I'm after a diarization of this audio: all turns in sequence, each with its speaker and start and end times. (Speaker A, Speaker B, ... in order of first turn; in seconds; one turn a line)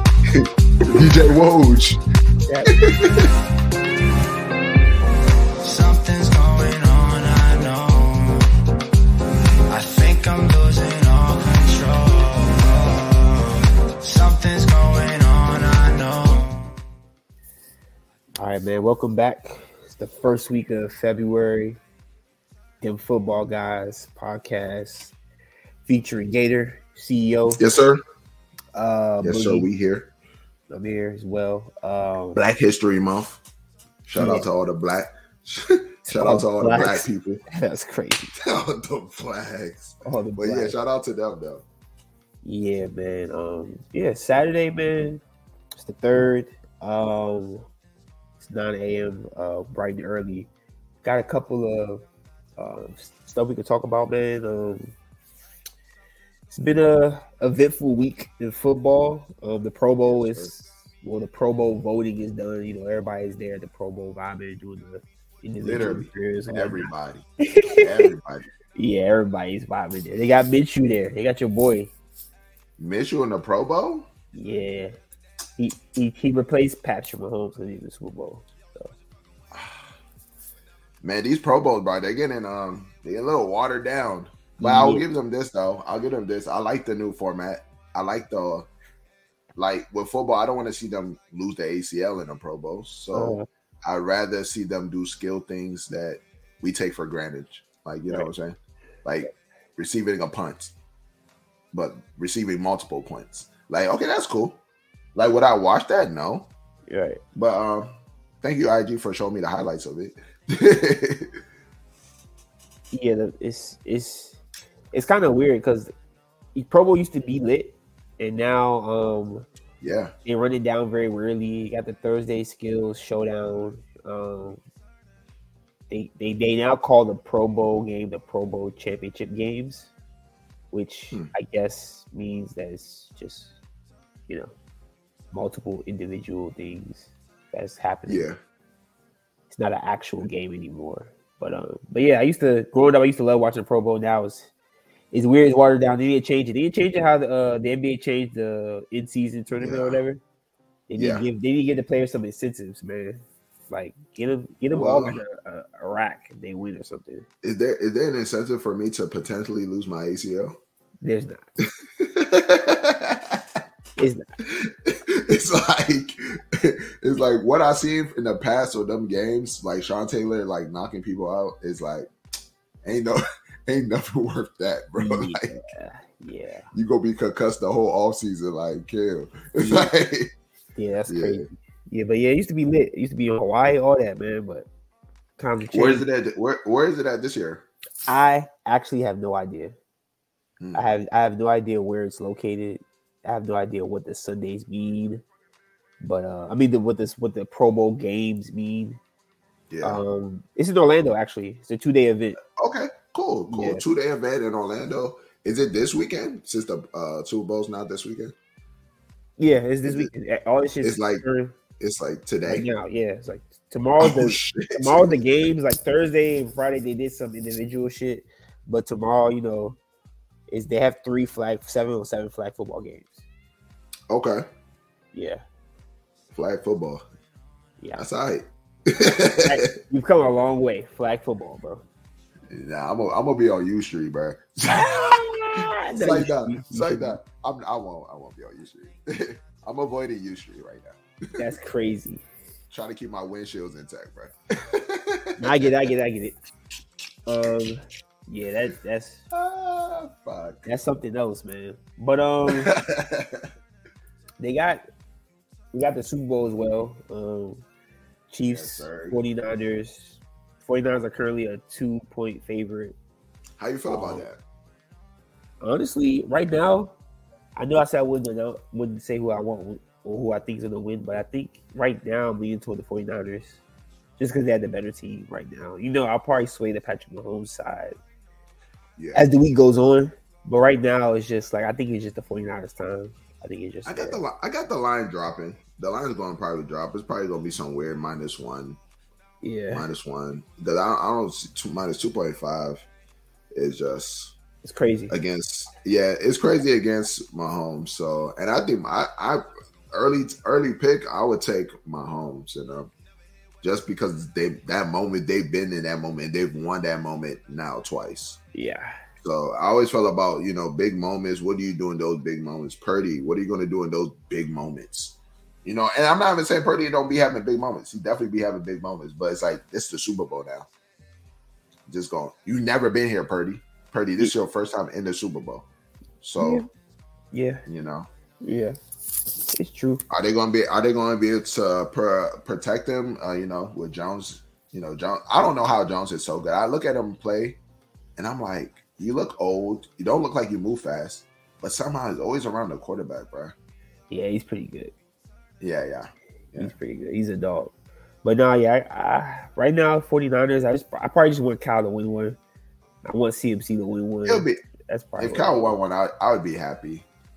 Speaker A: 0.3-2.0
Speaker B: 2.5-2.7
Speaker A: 2.7-3.3
Speaker C: 5.6-8.5
Speaker C: 9.7-16.7
Speaker B: 18.4-21.8
Speaker B: 22.8-25.1
Speaker B: 25.9-27.6
Speaker A: 27.6-28.0
Speaker B: 28.7-29.7
Speaker A: 29.2-30.1
Speaker B: 30.7-32.4
Speaker A: 32.4-33.4
Speaker A: 34.0-37.4
Speaker B: 34.2-34.5
Speaker B: 36.1-38.3
Speaker A: 38.4-41.6
Speaker B: 40.0-40.8
Speaker B: 42.4-45.2
Speaker B: 45.8-47.7
Speaker B: 48.4-50.5
Speaker B: 51.0-52.0
Speaker B: 52.6-54.9
Speaker B: 56.5-66.9
Speaker A: 60.0-60.5
Speaker A: 65.6-68.5
Speaker B: 67.5-68.1
Speaker B: 68.8-71.9
Speaker A: 72.8-74.1
Speaker B: 74.3-75.0
Speaker B: 75.6-78.9
Speaker A: 79.5-79.8
Speaker A: 81.0-88.7
Speaker B: 84.6-85.0
Speaker A: 89.6-100.7
Speaker B: 93.1-93.5
Speaker A: 101.7-104.6
Speaker A: 105.2-106.5
Speaker B: 106.9-107.2
Speaker A: 107.4-111.3
Speaker B: 112.9-114.4
Speaker B: 114.9-115.9
Speaker B: 116.5-119.5
Speaker A: 119.8-120.1
Speaker B: 120.3-124.6
Speaker B: 125.9-129.9
Speaker B: 130.7-133.6
Speaker B: 135.3-138.3
Speaker A: 138.1-138.4
Speaker B: 139.5-144.5
Speaker B: 145.1-150.2
Speaker A: 149.6-150.0
Speaker B: 150.9-157.3
Speaker A: 151.0-151.3
Speaker A: 154.7-155.2
Speaker A: 157.4-160.6
Speaker B: 161.0-161.4
Speaker A: 162.0-163.4
Speaker B: 164.0-164.3
Speaker A: 164.4-172.1
Speaker A: 172.8-175.6
Speaker B: 175.0-176.7
Speaker A: 176.7-180.3
Speaker B: 179.6-179.9
Speaker B: 180.8-184.7
Speaker A: 181.1-181.5
Speaker B: 185.4-186.1
Speaker A: 185.7-187.7
Speaker B: 188.1-189.8
Speaker A: 190.6-190.8
Speaker B: 190.7-195.2
Speaker B: 196.0-199.0
Speaker A: 199.7-200.0
Speaker B: 199.8-202.4
Speaker A: 202.6-208.3
Speaker B: 203.5-203.8
Speaker B: 209.4-211.6
Speaker A: 209.8-210.1
Speaker A: 210.8-211.2
Speaker A: 211.8-212.7
Speaker B: 212.4-219.8
Speaker A: 214.0-215.2
Speaker B: 220.5-223.2
Speaker A: 224.1-224.4
Speaker B: 225.1-225.4
Speaker A: 226.3-227.1
Speaker B: 227.8-228.1
Speaker A: 228.0-229.7
Speaker B: 229.4-231.8
Speaker A: 232.5-241.4
Speaker B: 234.8-237.2
Speaker B: 241.4-242.2
Speaker A: 242.7-245.7
Speaker B: 245.4-246.3
Speaker B: 247.3-249.2
Speaker A: 249.3-250.7
Speaker B: 250.7-252.7
Speaker A: 252.5-253.5
Speaker B: 254.4-254.8
Speaker B: 255.7-257.6
Speaker B: 258.3-262.9
Speaker A: 258.5-259.2
Speaker A: 263.6-264.4
Speaker B: 263.9-264.2
Speaker B: 265.6-266.9
Speaker B: 267.6-273.6
Speaker B: 274.2-278.0
Speaker A: 279.0-279.2
Speaker B: 279.1-284.2
Speaker A: 283.9-288.8
Speaker B: 289.4-289.9
Speaker A: 289.7-292.9
Speaker A: 293.5-294.4
Speaker B: 294.6-295.1
Speaker A: 295.1-302.9
Speaker A: 303.6-308.4
Speaker B: 308.5-309.0
Speaker A: 309.2-320.7
Speaker A: 321.9-325.7
Speaker A: 326.2-326.6
Speaker B: 326.4-326.7
Speaker B: 327.3-327.6
Speaker A: 327.7-328.1
Speaker B: 328.4-328.8
Speaker B: 329.5-330.0
Speaker A: 330.1-337.6
Speaker A: 338.2-343.6
Speaker B: 344.1-344.9
Speaker A: 345.6-346.7
Speaker B: 346.6-347.7
Speaker B: 348.2-352.4
Speaker B: 353.0-355.8
Speaker A: 354.3-354.6
Speaker A: 355.2-357.1